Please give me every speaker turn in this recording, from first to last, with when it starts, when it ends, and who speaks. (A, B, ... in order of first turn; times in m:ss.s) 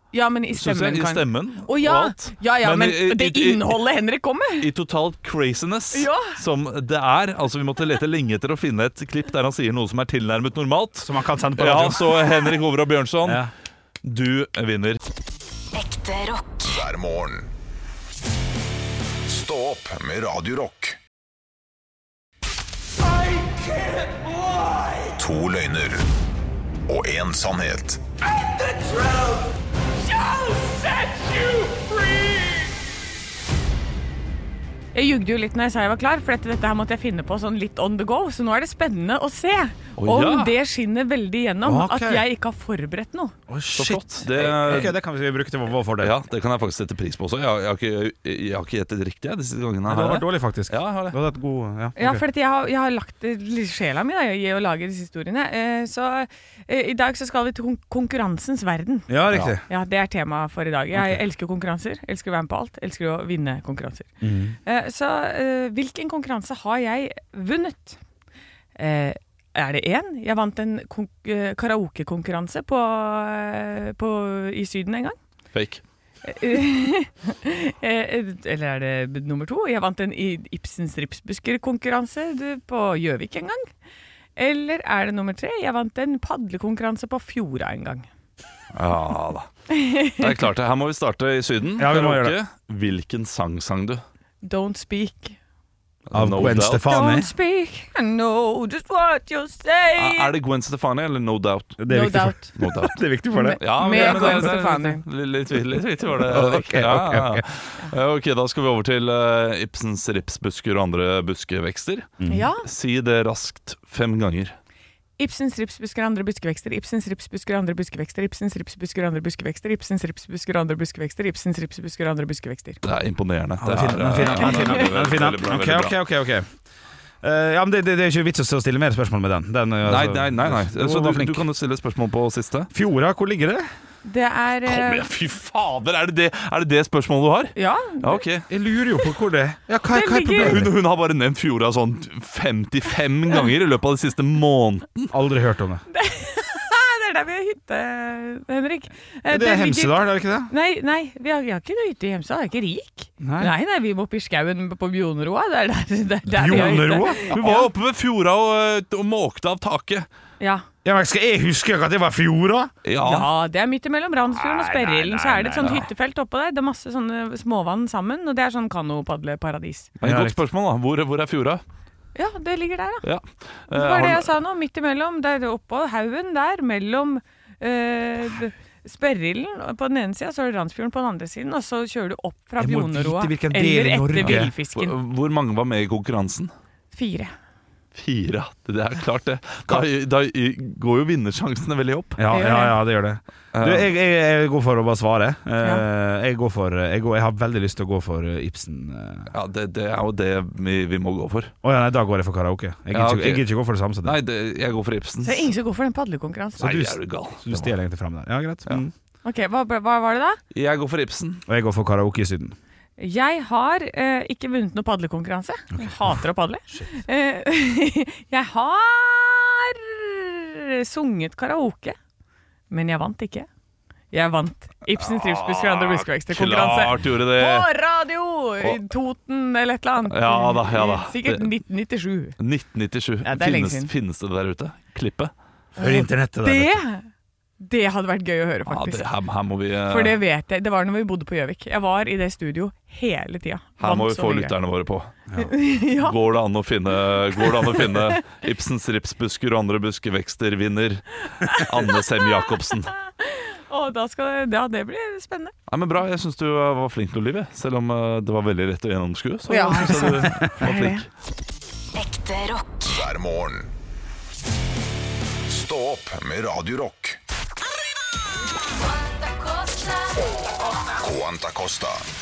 0:00.1-0:04.7 A
0:00.5-0:03.8 B
0:04.6-0:13.5 B
0:05.9-0:06.4 A
0:11.0-0:12.6 C
0:13.2-0:13.5 C
0:14.0-0:15.0 B
0:15.7-0:16.7 D
0:16.6-0:17.5 E
0:19.3-0:21.0 E
0:25.2-0:26.1 E
0:26.9-0:28.0 E
0:34.9-0:43.4 A
0:40.0-0:40.6 B
0:41.6-0:42.2 C
0:43.5-0:46.2 C
0:43.7-0:45.0 B
0:46.0-0:51.2 B
0:49.9-0:52.2 C
0:52.0-0:59.1 A
0:59.1-0:59.6 C
0:59.7-1:04.1 A
1:04.2-1:04.6 C
1:04.7-1:08.0 A
1:08.8-1:15.2 A
1:15.5-1:15.8 B
1:16.2-1:23.7 A
1:24.4-1:28.1 A
1:28.7-1:29.5 B
1:29.7-1:30.3 A
1:30.2-1:34.0 B
1:31.8-1:32.4 C
1:34.4-1:35.4 A
1:36.1-1:37.0 B
1:36.1-1:37.3 C
1:36.8-1:40.3 A
1:40.0-1:41.8 B
1:41.8-1:44.6 C
1:41.9-1:42.5 A
1:42.6-1:43.0 B
1:43.3-1:45.0 A
1:43.6-1:54.6 B
1:46.2-1:47.4 C
1:52.2-1:52.4 C
1:52.3-1:52.7 A
1:55.2-2:02.8 A
2:02.8-2:06.0 B
2:03.6-2:06.5 C
2:04.2-2:04.8 A
2:07.2-2:11.5 C
2:09.9-2:12.7 B
2:12.7-2:13.7 C
2:14.0-2:15.1 A
2:14.7-2:18.5 B
2:17.6-2:18.2 A
2:18.5-2:20.7 C
2:19.9-2:20.6 A
2:20.4-2:25.1 B
2:25.1-2:25.8 C
2:25.9-2:37.7 A
2:29.3-2:30.5 C
2:33.2-2:33.5 C
2:36.3-2:40.1 B
2:36.4-2:37.6 C
2:40.4-2:40.6 A
2:40.8-2:42.7 C
2:42.8-2:43.3 B
2:43.0-2:49.9 A
2:44.4-2:45.7 C
2:45.6-2:45.9 B
2:50.0-2:51.6 B
2:50.0-2:50.4 C
2:52.2-2:53.1 A
2:53.0-2:54.3 B
2:53.7-3:05.0 A
3:02.6-3:04.5 C
3:04.2-3:06.5 B
3:06.9-3:07.3 A
3:08.0-3:12.2 B
3:12.2-3:19.3 C
3:12.3-3:12.8 A
3:13.5-3:13.9 B
3:19.3-3:21.5 B
3:21.6-3:24.2 C
3:22.9-3:23.5 B
3:24.0-3:25.5 B
3:25.2-3:26.7 A
3:26.6-3:27.7 B
3:26.6-3:28.9 C
3:29.2-3:30.4 A
3:30.5-3:31.4 B
3:31.5-3:32.6 C
3:33.0-3:42.0 A
3:35.8-3:36.1 C
3:36.7-3:37.0 C
3:42.7-3:43.5 A
3:44.1-3:52.4 A
3:45.0-3:47.7 B
3:50.1-3:51.5 B
3:52.4-3:55.3 B
3:53.2-3:53.9 A
3:55.8-3:56.8 C
3:55.8-3:57.1 A
3:57.6-3:59.1 A
3:58.7-4:00.2 B
3:59.8-4:04.6 A
4:03.8-4:05.1 B
4:05.4-4:06.2 A
4:05.9-4:12.9 B
4:07.4-4:08.2 A
4:13.2-4:15.5 A
4:15.7-4:21.1 B
4:19.5-4:21.1 A
4:22.0-4:23.0 D
4:22.8-4:23.7 E
4:25.5-4:27.2 E
4:28.8-4:30.3 D
4:31.0-4:32.1 E